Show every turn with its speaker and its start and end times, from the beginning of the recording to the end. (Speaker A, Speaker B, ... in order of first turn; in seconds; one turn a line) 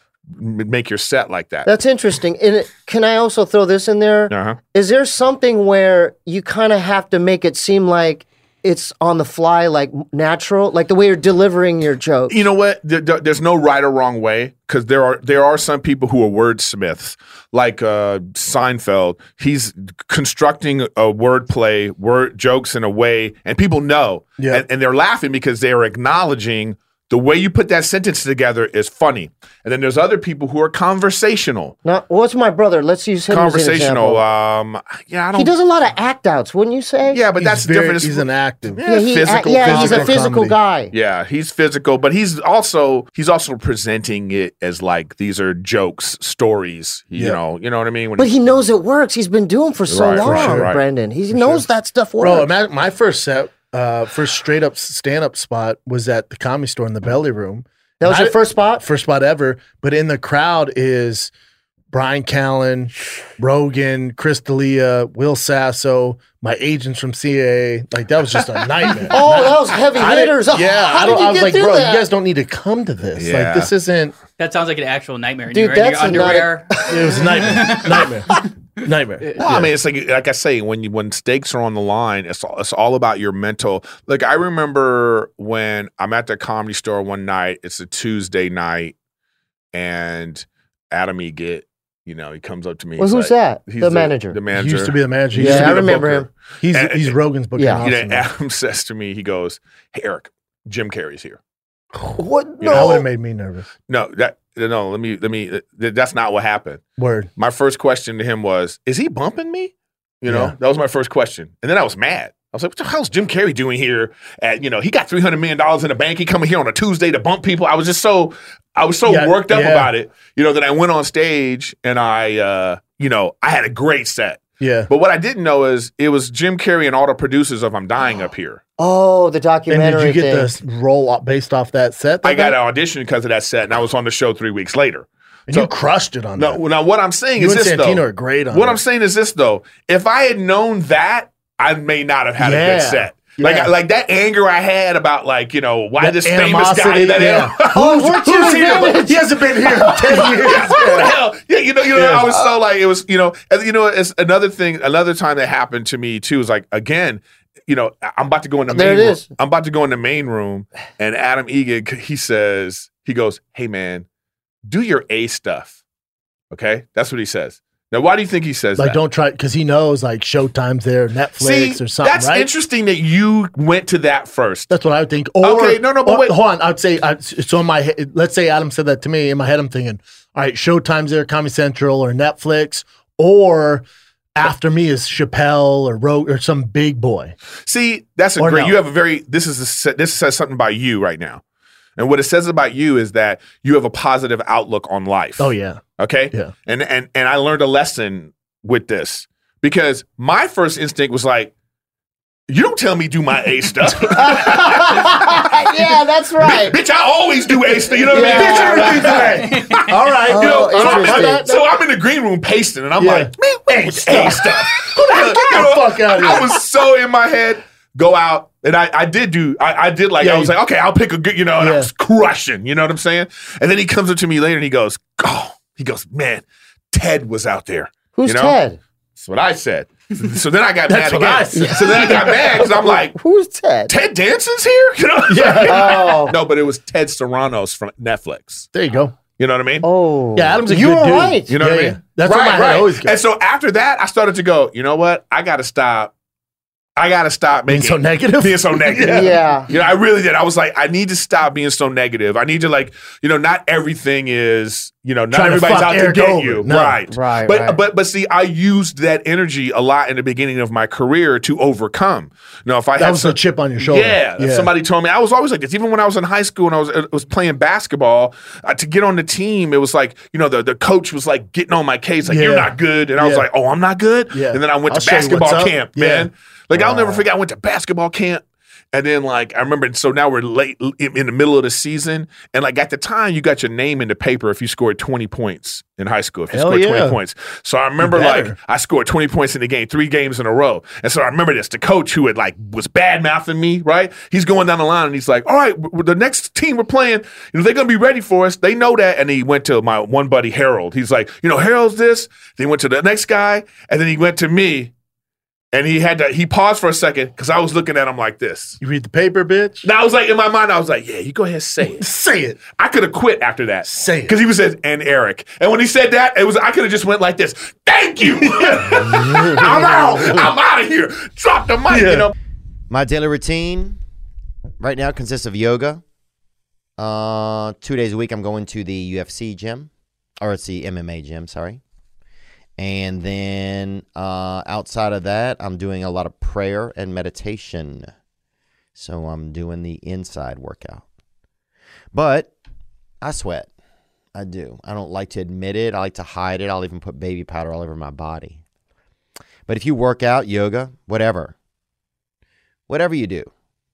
Speaker A: 0.3-1.7
Speaker B: 1.6-12.4
Speaker A: 4.3-4.6
Speaker A: 12.3-31.7
Speaker C: 24.4-24.6
Speaker B: 31.8-34.2
Speaker A: 33.3-35.5
Speaker B: 35.3-37.2
Speaker A: 37.1-40.2
Speaker C: 37.4-38.8
Speaker B: 38.8-40.9
Speaker C: 39.5-40.5
Speaker A: 40.9-48.3
Speaker B: 48.2-52.5
Speaker A: 49.9-50.8
Speaker C: 50.2-50.7
Speaker C: 51.3-51.6
Speaker C: 52.2-61.3
Speaker B: 58.0-58.8
Speaker C: 61.9-74.1
Speaker B: 69.1-72.0
Speaker A: 73.2-73.7
Speaker D: 74.4-78.0
Speaker B: 75.5-77.1
Speaker C: 76.9-78.3
Speaker C: 78.8-79.7
Speaker A: 79.4-88.9
Speaker A: 89.7-97.1
Speaker B: 93.0-94.4
Speaker C: 94.5-98.2
Speaker B: 95.3-96.2
Speaker B: 97.6-97.8
Speaker A: 97.8-101.4
Speaker B: 102.2-103.0
Speaker A: 102.6-103.0
Speaker C: 102.7-103.7
Speaker A: 103.9-106.8
Speaker C: 107.0-107.3
Speaker A: 107.4-128.6
Speaker C: 110.3-110.5
Speaker C: 119.0-119.9
Speaker C: 124.6-124.9
Speaker B: 128.8-130.5
Speaker C: 129.7-132.6
Speaker A: 132.2-135.7
Speaker C: 135.5-136.6
Speaker A: 136.4-147.8
Speaker C: 137.4-138.8
Speaker C: 142.4-143.7
Speaker C: 146.0-151.2
Speaker B: 147.7-149.2
Speaker B: 149.7-150.3
Speaker A: 150.1-164.1
Speaker C: 151.9-152.3
Speaker B: 158.7-159.3
Speaker A: 164.7-165.8
Speaker A: 166.5-169.0
Speaker C: 168.8-172.5
Speaker A: 171.4-174.7
Speaker C: 174.7-187.3
Speaker A: 175.4-176.3
Speaker A: 187.7-191.4
Speaker C: 188.4-188.8
Speaker A: 192.0-201.5
Speaker C: 195.4-196.5
Speaker A: 202.5-205.4
Speaker C: 204.1-204.6
Speaker B: 204.2-206.8
Speaker A: 206.4-228.6
Speaker B: 208.1-209.2
Speaker C: 208.1-211.5
Speaker B: 210.3-211.6
Speaker C: 213.0-216.6
Speaker C: 220.2-220.5
Speaker C: 221.6-221.9
Speaker B: 228.2-228.8
Speaker A: 229.2-233.2
Speaker C: 230.9-232.6
Speaker B: 231.6-233.9
Speaker A: 233.9-238.7
Speaker C: 235.3-236.1
Speaker B: 235.6-236.3
Speaker C: 238.7-239.2
Speaker A: 239.4-239.8
Speaker B: 239.8-241.5
Speaker C: 240.3-243.1
Speaker A: 241.5-246.1
Speaker A: 247.0-278.4
Speaker C: 247.7-249.3
Speaker B: 249.0-249.7
Speaker C: 255.3-257.0
Speaker B: 257.1-257.8
Speaker C: 262.9-264.7
Speaker C: 272.2-273.4
Speaker C: 274.3-277.2
Speaker A: 278.9-304.9
Speaker C: 286.5-287.2
Speaker C: 288.0-288.5
Speaker A: 305.7-308.8
Speaker C: 308.8-309.9
Speaker A: 309.8-312.1
Speaker C: 311.8-312.6
Speaker A: 312.7-322.3
Speaker C: 313.8-314.4
Speaker C: 318.4-320.5
Speaker C: 321.9-322.3
Speaker E: 322.9-324.0
Speaker E: 324.8-326.0
Speaker E: 327.0-329.9
Speaker E: 330.4-331.8
Speaker E: 332.8-338.1
Speaker E: 338.9-341.0
Speaker E: 342.1-342.5
Speaker E: 343.2-343.7
Speaker E: 344.3-348.6
Speaker E: 349.7-351.5
Speaker E: 352.9-353.5